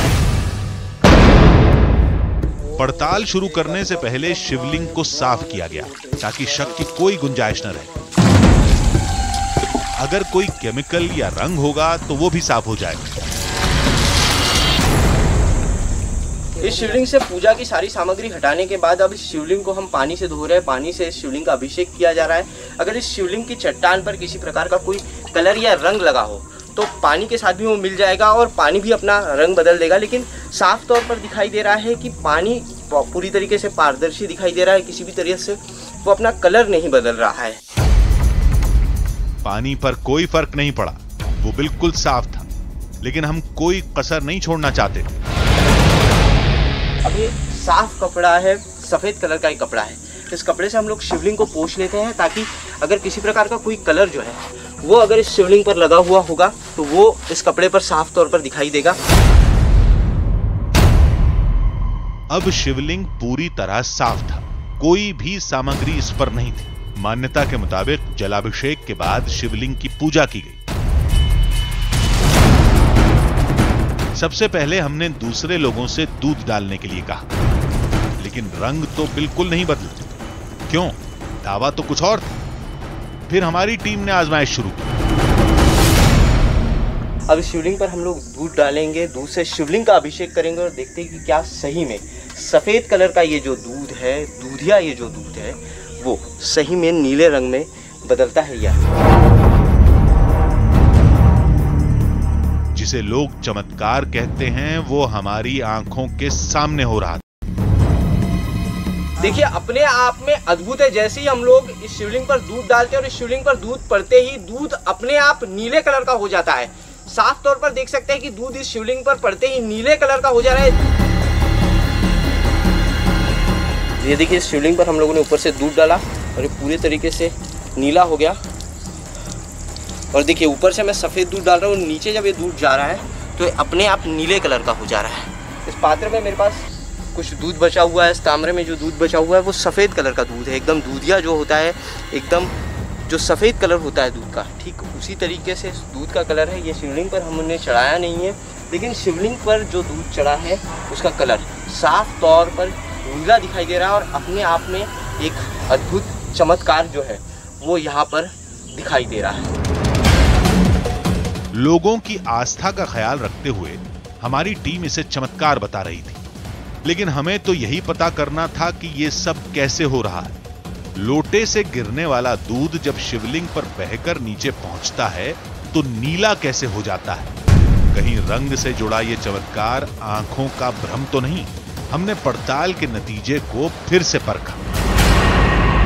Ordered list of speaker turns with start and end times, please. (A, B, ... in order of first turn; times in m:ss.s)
0:02.8-0:07.9 A
0:10.0-0:13.1 A
0:16.6-0:37.6 B
0:39.4-0:42.5 A
0:43.0-0:45.2 A
0:47.0-0:59.0 B
1:02.3-1:10.6 A
1:14.1-1:17.3 A
1:18.2-1:20.1 A
1:20.7-1:22.4 A
1:23.3-1:24.9 A
1:27.3-1:38.8 B
1:42.7-1:47.2 A
1:49.2-2:00.8 B
2:04.0-2:08.4 B
2:10.1-2:22.5 B
2:23.1-2:39.5 B
2:41.5-2:46.2 A
2:46.8-2:50.4 A
2:51.0-2:57.3 A
2:57.9-3:04.6 A